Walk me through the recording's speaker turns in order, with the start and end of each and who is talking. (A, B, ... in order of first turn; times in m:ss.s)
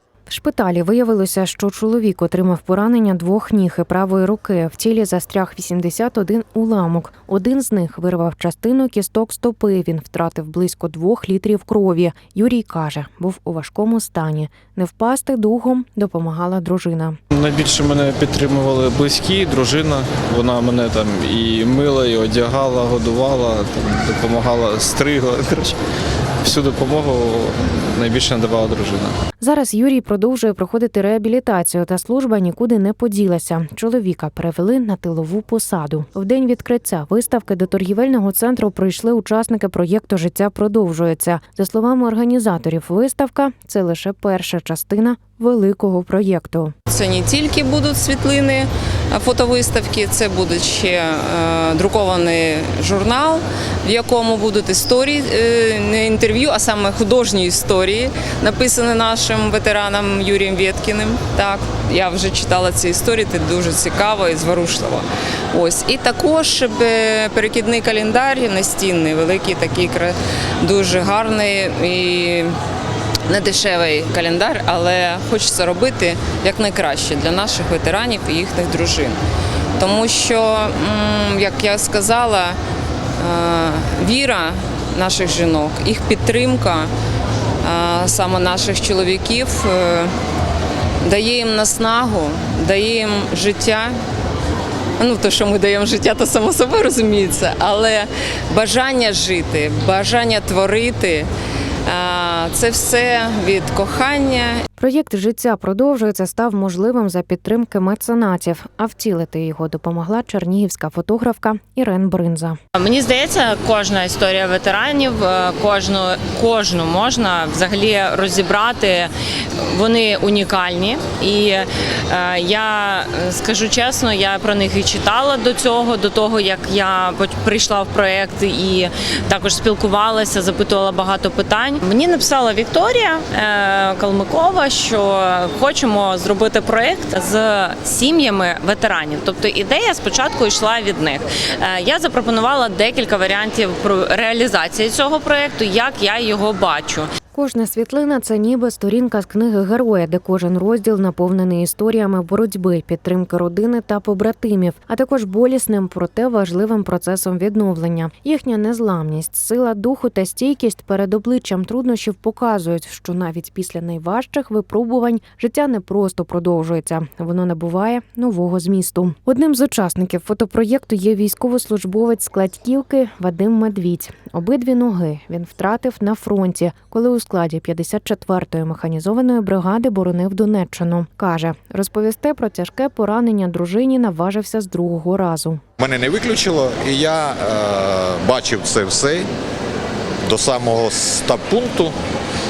0:00.3-0:17.2 A
0:17.3-0:25.8 B
0:26.4-0:29.2 B
0:29.4-0:46.7 A
0:46.9-1:12.5 C
1:13.3-1:19.2 C
1:19.8-1:22.6 C
1:23.2-1:26.9 C
1:27.6-1:30.1 C
1:31.0-1:33.9 C
1:35.0-1:41.3 C
1:41.9-1:44.6 C
1:44.8-1:52.6 A
1:52.8-2:27.1 D
2:27.3-3:05.6 A
3:05.8-3:09.3 E
3:10.2-3:11.9 E